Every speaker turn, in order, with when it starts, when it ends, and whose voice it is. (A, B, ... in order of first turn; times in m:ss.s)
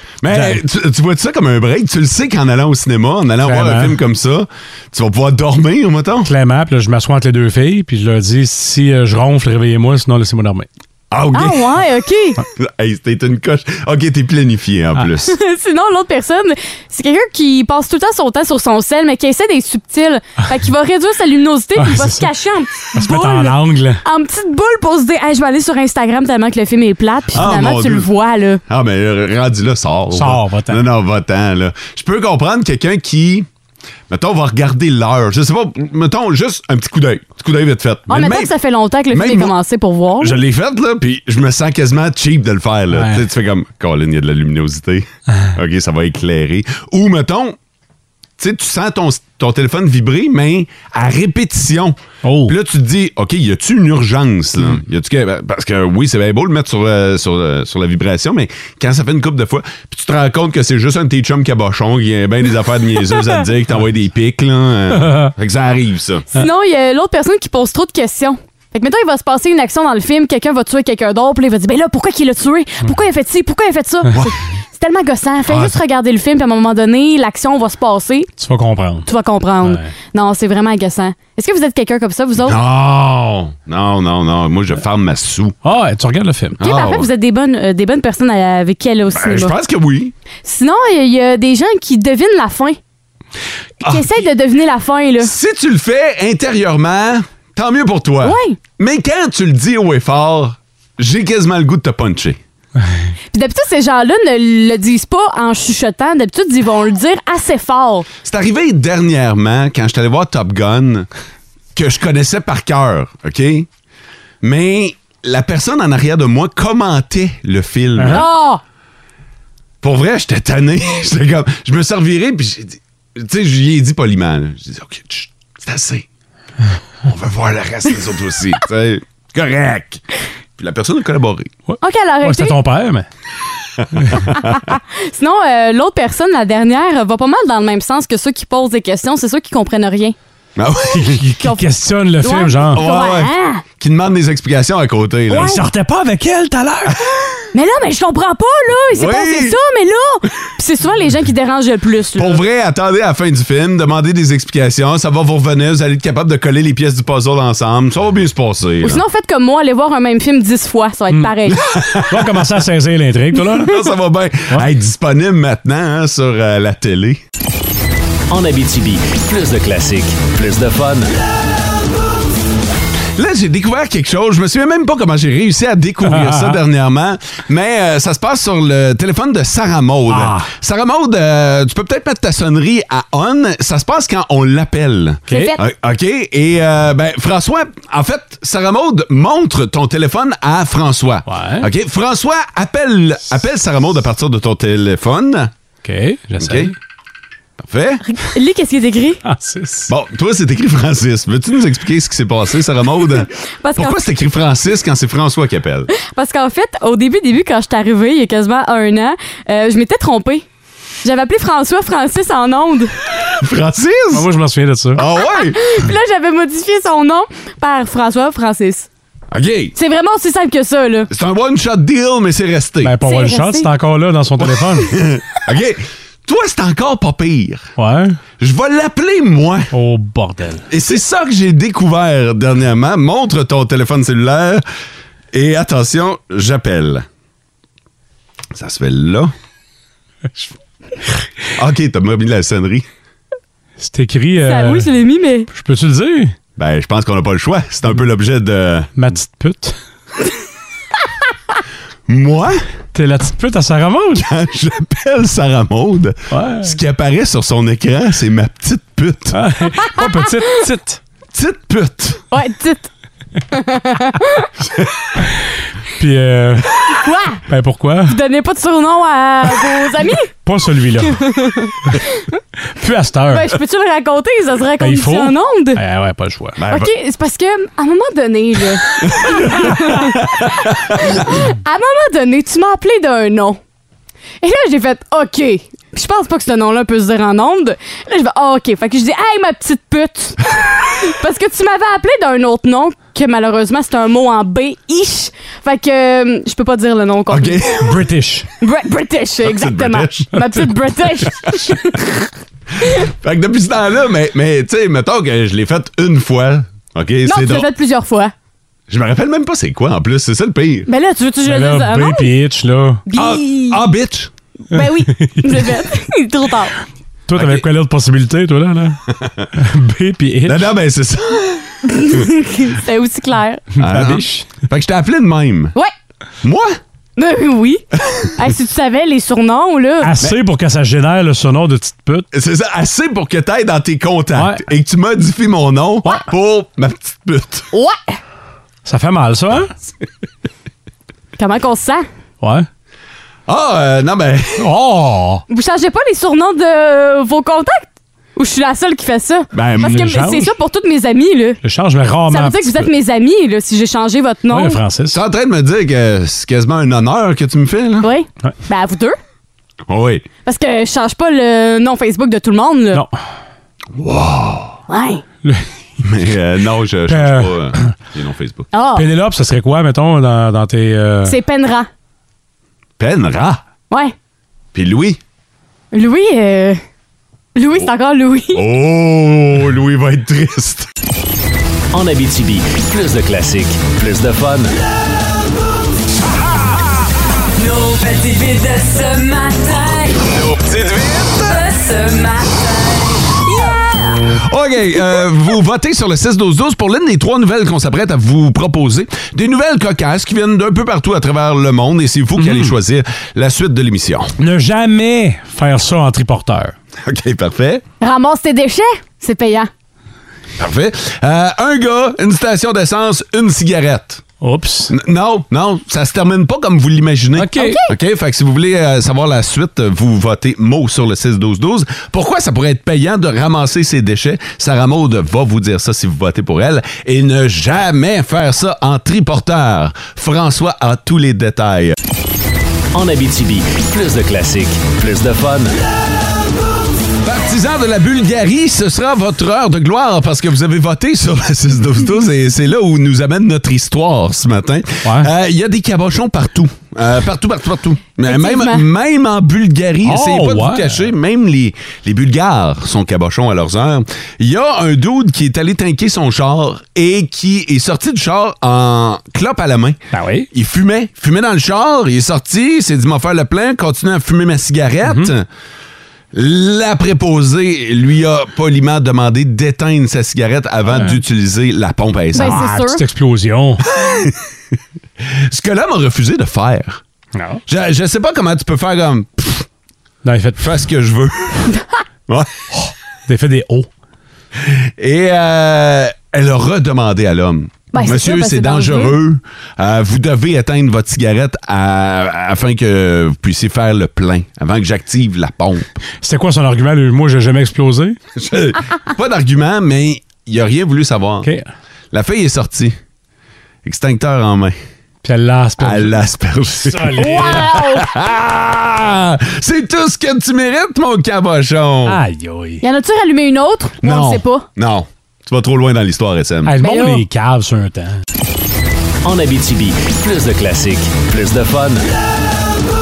0:00.2-0:06.3 A
0:00.3-0:00.6 B
0:03.4-0:04.0 B
0:06.2-0:10.7 B
0:11.1-0:11.8 A
0:11.3-0:12.4 C
0:12.6-0:15.4 A
0:15.2-0:28.6 C
0:21.8-0:22.3 B
0:22.9-0:24.0 B
0:27.3-0:28.1 A
0:28.7-0:33.5 A
0:30.1-0:30.8 B
0:34.1-0:38.5 A
0:38.1-0:40.4 C
0:39.1-0:39.5 A
0:40.2-0:47.6 A
0:42.9-0:43.2 B
0:48.4-1:06.3 A
0:52.2-0:52.5 B
1:04.9-1:05.3 B
1:06.3-1:18.3 C
1:15.5-1:15.8 A
1:18.4-1:19.1 B
1:19.0-1:22.6 C
1:19.6-1:19.9 B
1:22.4-1:25.5 A
1:25.6-1:26.6 B
1:26.6-1:27.1 A
1:26.6-1:29.5 C
1:29.1-1:30.1 A
1:30.4-1:32.8 C
1:33.8-1:34.1 A
1:33.8-1:35.3 C
1:35.2-1:42.4 A
1:38.2-1:38.6 C
1:43.3-1:48.1 C
1:48.2-1:51.1 A
1:51.7-1:53.7 A
1:54.4-1:58.3 A
1:58.0-1:58.2 B
1:58.1-1:58.6 C
1:59.8-2:06.0 A
2:07.0-2:10.0 A
2:10.6-2:11.5 A
2:11.7-2:13.1 B
2:11.8-2:12.6 C
2:13.8-2:14.5 A
2:14.0-2:14.3 B
2:14.3-2:20.1 C
2:20.6-2:21.2 A
2:20.9-2:22.8 B
2:22.2-2:23.6 C
2:22.7-2:25.6 A
2:25.3-2:27.0 B
2:27.5-2:32.4 C
2:28.9-2:29.6 A
2:32.2-2:39.0 A
2:38.8-2:41.6 C
2:41.5-2:42.4 A
2:42.1-2:43.8 B
2:43.6-2:47.2 A
2:48.3-2:51.1 D
2:53.2-3:15.5 A
2:56.0-2:56.6 B
3:00.1-3:00.5 B
3:05.3-3:05.5 B
3:05.3-3:05.6 C
3:11.3-3:11.7 B
3:15.8-3:16.7 B
3:16.4-3:16.7 A
3:17.6-3:18.0 A
3:18.1-3:19.2 C
3:19.2-3:19.9 B
3:19.9-3:25.9 A
3:23.6-3:24.0 C
3:25.9-3:30.4 C
3:31.0-3:32.9 C
3:33.4-3:34.3 A
3:34.1-3:35.0 B
3:35.0-3:35.6 A
3:35.1-3:38.9 C
3:39.3-3:39.7 A
3:39.8-3:41.1 C
3:41.1-3:43.0 A
3:42.8-3:44.9 B
3:43.0-3:43.7 C
3:44.4-3:47.7 A
3:47.8-3:48.2 B
3:48.4-3:49.7 A
3:49.7-3:50.7 B
3:50.7-3:54.6 A
3:55.3-3:57.0 A
3:58.5-3:59.3 A
4:01.5-4:02.9 A
4:03.8-4:04.9 B
4:04.4-4:05.5 C
4:05.5-4:06.3 B
4:06.6-4:08.9 A
4:09.0-4:09.8 B
4:12.1-4:12.6 A
4:12.9-4:14.2 B
4:14.1-4:19.4 A
4:16.3-4:16.7 B
4:19.3-4:21.0 B
4:21.3-4:22.2 A
4:22.3-4:22.9 C
4:23.5-4:24.5 C
4:26.0-4:26.7 B
4:26.9-4:27.4 C
4:27.5-4:28.2 B
4:28.1-4:30.3 C
4:30.4-4:31.2 B
4:31.0-4:32.2 C
4:32.8-4:33.6 B
4:33.3-4:35.8 C
4:34.8-4:36.6 B
4:36.6-4:36.9 A
4:36.7-4:43.6 C
4:39.1-4:41.2 A
4:44.4-4:57.8 C
4:57.3-4:58.0 A
4:57.8-4:58.5 B
4:58.6-5:02.1 C
4:59.4-5:00.3 A
5:01.5-5:01.7 A
5:02.8-5:07.7 A
5:07.2-5:08.3 C
5:08.9-5:10.9 A
5:10.9-5:12.3 C
5:11.4-5:13.0 B
5:13.1-5:13.8 C
5:13.1-5:14.3 A
5:14.7-5:16.7 C
5:14.7-5:15.7 B
5:17.3-5:19.0 B
5:17.3-5:17.6 A
5:19.1-5:19.5 A
5:19.5-5:20.7 B
5:20.4-5:22.3 A
5:21.9-5:23.7 C
5:23.8-5:24.5 B
5:23.8-5:25.7 A
5:26.4-5:26.8 A
5:27.2-5:30.2 C
5:30.0-5:32.3 B
5:32.3-5:37.7 A
5:34.3-5:34.6 B
5:37.7-5:38.2 C
5:38.8-5:39.7 B
5:41.4-5:42.0 C
5:42.4-5:42.7 B
5:43.5-5:44.7 A
5:44.6-5:45.4 B
5:45.5-5:51.6 C
5:49.5-5:50.1 A
5:49.8-5:50.5 B
5:51.6-5:52.9 B
5:52.3-5:54.8 C
5:54.5-5:55.2 B
5:55.1-5:58.1 A
5:58.0-5:59.2 C
5:59.9-6:00.3 A
6:00.4-6:03.0 C
6:03.9-6:04.8 A
6:04.9-6:05.2 C
6:06.0-6:08.7 A
6:07.1-6:07.9 B
6:08.7-6:09.1 C
6:08.9-6:11.4 B
6:11.2-6:11.9 C
6:13.0-6:13.6 A
6:14.7-6:15.2 A
6:15.9-6:16.8 C
6:17.6-6:18.6 C
6:18.5-6:20.9 A
6:21.9-6:24.7 D
6:27.6-6:30.2 E
6:30.3-6:31.4 A
6:31.5-6:34.1 E
6:34.3-6:44.3 A
6:42.4-6:42.7 B
6:44.4-6:46.7 B
6:47.0-6:47.8 A
6:48.0-6:49.7 C
6:50.6-6:54.2 A
6:54.4-6:54.9 B
6:54.9-7:11.9 A
6:57.4-6:57.8 B
6:57.6-6:57.9 C
7:12.9-7:15.7 D
7:17.2-7:40.0 A
7:25.0-7:25.3 B
7:28.2-7:28.8 C
7:30.0-7:31.1 B
7:40.1-7:40.5 B
7:40.5-7:45.4 A
7:45.0-7:45.3 B
7:46.3-7:52.6 A
7:50.9-7:51.2 B
7:52.3-7:53.0 C
7:52.4-7:53.8 B
7:53.9-7:54.4 A
7:55.2-7:57.0 A
7:57.3-7:57.6 B
7:57.7-7:59.7 A
8:00.2-8:00.7 B
8:00.6-8:01.7 A
8:02.3-8:02.9 A
8:03.3-8:03.9 B
8:04.6-8:16.0 A
8:07.9-8:09.1 C
8:16.2-8:18.2 B
8:18.4-8:21.5 A
8:21.4-8:21.7 B
8:22.1-8:23.0 A
8:23.8-8:24.8 A
8:25.2-8:26.2 B
8:25.8-8:32.2 A
8:26.8-8:27.8 B
8:27.2-8:28.1 C
8:32.0-8:32.8 B
8:32.8-8:34.6 C
8:34.0-8:36.7 A
8:36.6-8:38.2 B
8:36.8-8:37.2 C
8:39.2-8:42.0 D